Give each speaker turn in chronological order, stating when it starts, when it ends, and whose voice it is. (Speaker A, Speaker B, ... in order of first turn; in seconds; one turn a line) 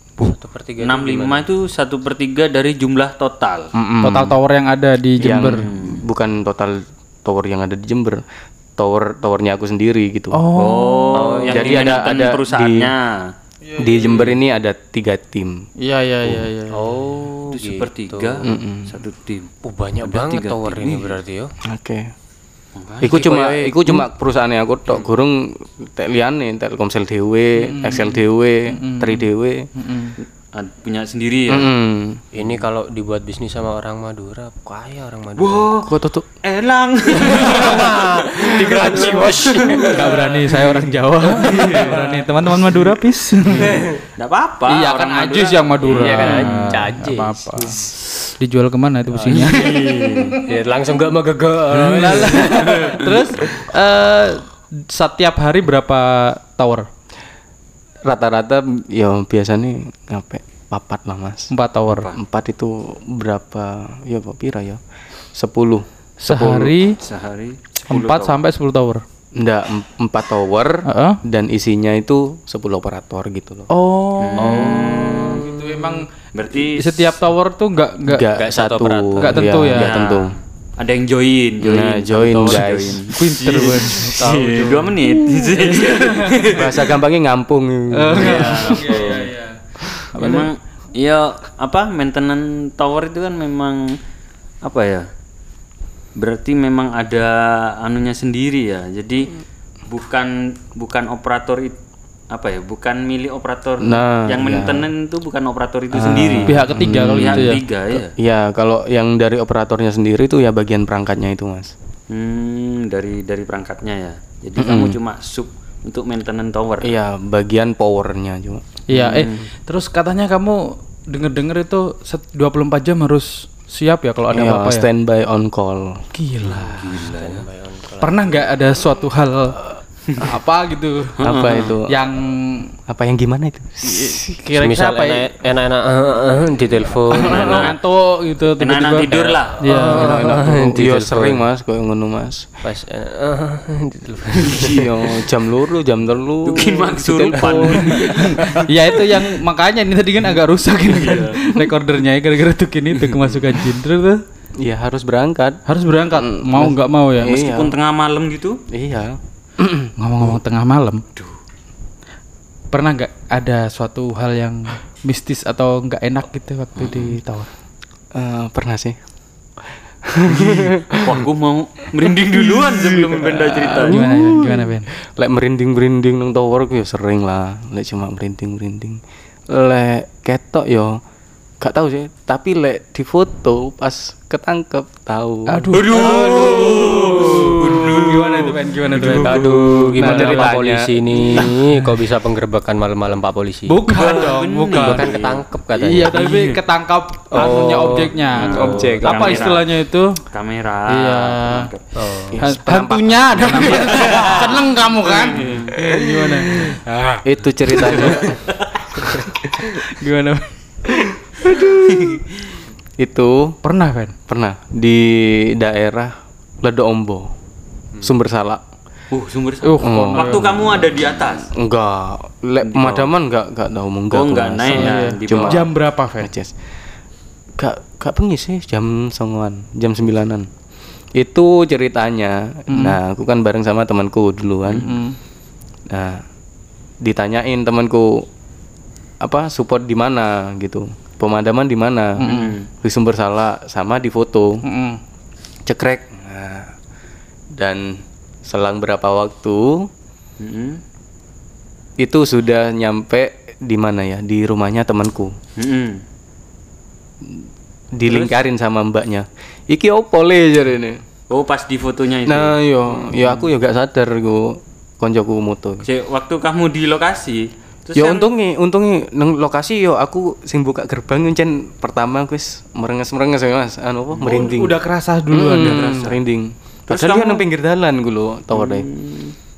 Speaker A: 0.2-1.5
Speaker B: 0.8-3.7
Speaker C: 3.8-4.4
Speaker D: 4.0-5.7
Speaker C: 5.2-8.2
Speaker B: 5.4-6.0
Speaker C: 8.8-10.4
Speaker D: 10.3-11.3
Speaker B: 10.6-13.3
Speaker A: 11.1-12.1
Speaker C: 11.5-12.9
Speaker D: 13.7-14.1
Speaker C: 13.8-15.7
Speaker D: 15.8-16.9
Speaker A: 16.7-18.5
Speaker B: 17.5-21.2
Speaker C: 18.4-19.0
Speaker A: 19.6-21.5
Speaker C: 21.6-22.1
Speaker B: 22.8-23.1
Speaker C: 23.0-29.7
Speaker A: 23.0-24.0
Speaker D: 27.6-30.1
Speaker B: 30.5-31.7
Speaker C: 31.5-32.2
Speaker A: 32.3-35.7
Speaker B: 35.4-40.4
Speaker C: 35.8-36.3
Speaker A: 37.2-40.2
Speaker C: 38.8-39.5
Speaker D: 39.8-43.9
Speaker B: 41.4-42.2
Speaker A: 41.5-42.0
Speaker B: 44.2-46.8
Speaker D: 44.7-47.8
Speaker A: 45.8-47.9
Speaker D: 48.4-50.5
Speaker A: 49.1-53.0
Speaker B: 49.4-50.4
Speaker B: 51.8-53.2
Speaker D: 51.8-56.9
Speaker C: 58.0-61.5
Speaker D: 61.5-62.1
Speaker B: 61.9-62.2
Speaker C: 62.1-64.8
Speaker C: 65.3-66.8
Speaker D: 66.2-67.0
Speaker B: 67.0-68.4
Speaker D: 67.9-69.0
Speaker C: 69.4-73.7
Speaker D: 70.8-71.2
Speaker D: 73.7-78.3
Speaker B: 74.2-75.4
Speaker A: 74.4-75.9
Speaker B: 76.3-77.2
Speaker C: 78.1-80.3
Speaker A: 78.4-79.5
Speaker D: 79.2-80.0
Speaker B: 79.8-86.9
Speaker C: 81.6-84.0
Speaker D: 83.1-86.6
Speaker C: 86.5-89.1
Speaker D: 87.9-90.5
Speaker B: 88.1-89.3
Speaker B: 90.2-94.0
Speaker B: 94.6-95.1
Speaker B: 96.2-99.3
Speaker B: 99.9-101.8
Speaker B: 102.3-106.6
Speaker C: 103.8-104.9
Speaker C: 105.9-111.7
Speaker D: 106.5-107.6
Speaker B: 107.1-108.1
Speaker B: 112.1-116.9
Speaker C: 114.6-115.0
Speaker C: 116.8-118.6
Speaker D: 118.9-124.9
Speaker B: 118.9-119.4
Speaker C: 124.3-126.0
Speaker D: 126.1-127.0
Speaker A: 126.5-128.4
Speaker B: 126.8-127.5
Speaker D: 128.0-129.6
Speaker D: 130.2-131.2
Speaker B: 131.2-131.8
Speaker C: 131.2-132.0
Speaker D: 131.9-132.7
Speaker C: 132.9-134.4
Speaker D: 133.9-135.3
Speaker A: 134.6-137.7
Speaker B: 137.1-137.8
Speaker C: 137.2-137.6
Speaker D: 137.6-140.2
Speaker B: 138.6-140.1
Speaker C: 139.7-142.5
Speaker A: 139.7-141.4
Speaker A: 142.6-145.2
Speaker B: 144.4-144.9
Speaker C: 144.6-149.2
Speaker B: 146.4-148.5
Speaker D: 147.9-154.2
Speaker B: 150.9-151.4
Speaker C: 154.6-155.6
Speaker D: 155.7-157.4
Speaker C: 156.1-157.8
Speaker B: 157.2-158.6
Speaker C: 158.7-159.9
Speaker D: 160.0-161.0
Speaker D: 162.7-167.5
Speaker C: 168.1-169.0
Speaker C: 170.0-171.2
Speaker B: 170.3-174.1
Speaker C: 172.0-181.0
Speaker D: 173.8-174.9
Speaker C: 181.6-188.2
Speaker D: 185.5-189.4
Speaker B: 185.7-188.6
Speaker C: 188.9-191.6
Speaker A: 189.1-193.8
Speaker D: 190.0-190.5
Speaker D: 191.4-191.7
Speaker D: 193.7-200.2
Speaker B: 193.9-195.4
Speaker A: 194.8-196.2
Speaker B: 196.1-196.6
Speaker C: 197.3-199.6
Speaker A: 197.4-198.9
Speaker B: 198.2-199.7
Speaker B: 200.3-201.8
Speaker D: 200.9-201.7
Speaker A: 201.9-202.4
Speaker C: 202.3-204.7
Speaker D: 202.4-206.8
Speaker B: 203.8-204.5
Speaker B: 205.1-205.9
Speaker C: 205.8-206.7
Speaker A: 206.9-207.2
Speaker C: 207.2-208.5
Speaker B: 207.8-208.8
Speaker C: 209.1-209.6
Speaker D: 209.5-211.1
Speaker C: 210.9-212.2
Speaker B: 211.7-212.3
Speaker C: 213.0-213.6
Speaker D: 213.6-214.2
Speaker C: 214.3-217.3
Speaker C: 218.0-218.6
Speaker B: 219.1-221.5
Speaker D: 219.6-220.5
Speaker C: 219.8-220.4
Speaker C: 221.5-225.7
Speaker B: 222.6-223.1
Speaker B: 224.1-225.7
Speaker D: 224.7-226.3
Speaker C: 226.2-226.5
Speaker C: 227.6-230.5
Speaker C: 231.2-234.9
Speaker D: 232.7-233.0
Speaker D: 234.7-235.2
Speaker C: 235.9-236.2
Speaker C: 237.0-238.3
Speaker C: 239.2-244.6
Speaker D: 242.2-242.5
Speaker B: 242.3-242.7
Speaker D: 244.6-245.0
Speaker C: 245.7-246.7
Speaker C: 247.6-249.9
Speaker B: 250.4-250.8
Speaker C: 252.0-255.4
Speaker B: 255.6-256.0
Speaker C: 257.2-261.0
Speaker B: 258.1-258.4
Speaker B: 261.3-263.5
Speaker C: 262.3-265.9
Speaker B: 265.8-268.2
Speaker C: 268.0-278.9
Speaker B: 274.2-274.5
Speaker D: 274.2-275.9
Speaker B: 275.5-276.2
Speaker B: 276.9-277.4
Speaker B: 278.5-279.4